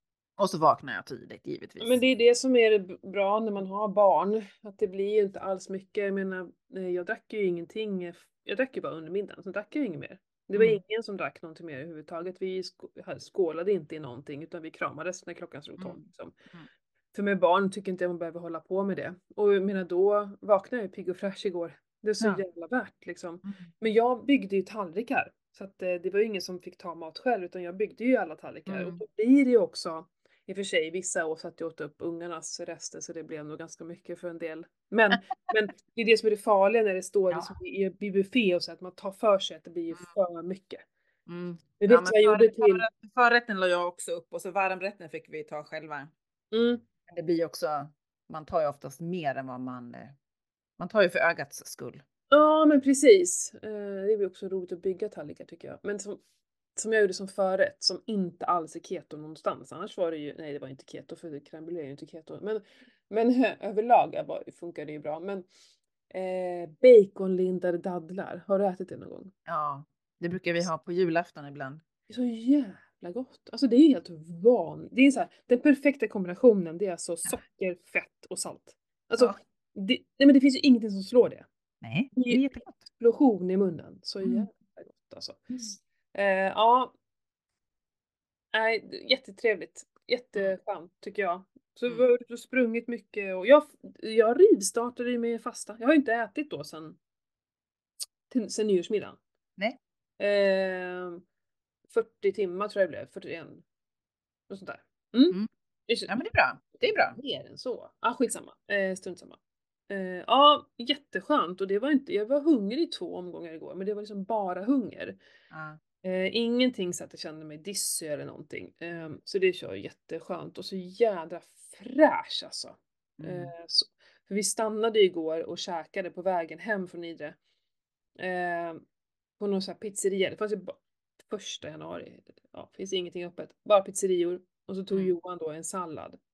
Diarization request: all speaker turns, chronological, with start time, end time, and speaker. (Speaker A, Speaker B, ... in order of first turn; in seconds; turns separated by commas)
Speaker A: 0.4-2.0, Speaker B: 1.8-16.3, Speaker A: 10.5-10.8, Speaker A: 15.8-16.7, Speaker B: 17.1-40.9, Speaker A: 22.2-22.4, Speaker A: 23.4-23.7, Speaker A: 28.7-29.0, Speaker A: 39.9-40.1, Speaker A: 41.3-46.1, Speaker B: 41.8-42.9, Speaker B: 46.5-46.8, Speaker A: 47.1-50.1, Speaker A: 50.8-52.0, Speaker B: 52.3-56.2, Speaker B: 56.8-65.5, Speaker B: 66.1-69.3, Speaker A: 69.5-71.8, Speaker B: 72.1-81.5, Speaker A: 81.8-82.8, Speaker B: 82.1-85.5, Speaker A: 84.2-84.5, Speaker B: 86.1-86.9, Speaker B: 88.5-97.0, Speaker B: 98.3-99.2, Speaker B: 100.2-101.2, Speaker B: 101.9-103.6, Speaker B: 104.5-106.1, Speaker A: 106.1-107.2, Speaker B: 106.8-109.4, Speaker B: 109.9-115.2, Speaker A: 115.5-115.8, Speaker B: 116.0-127.4, Speaker A: 123.2-123.5, Speaker B: 128.2-128.8, Speaker B: 129.4-136.2, Speaker A: 134.9-135.2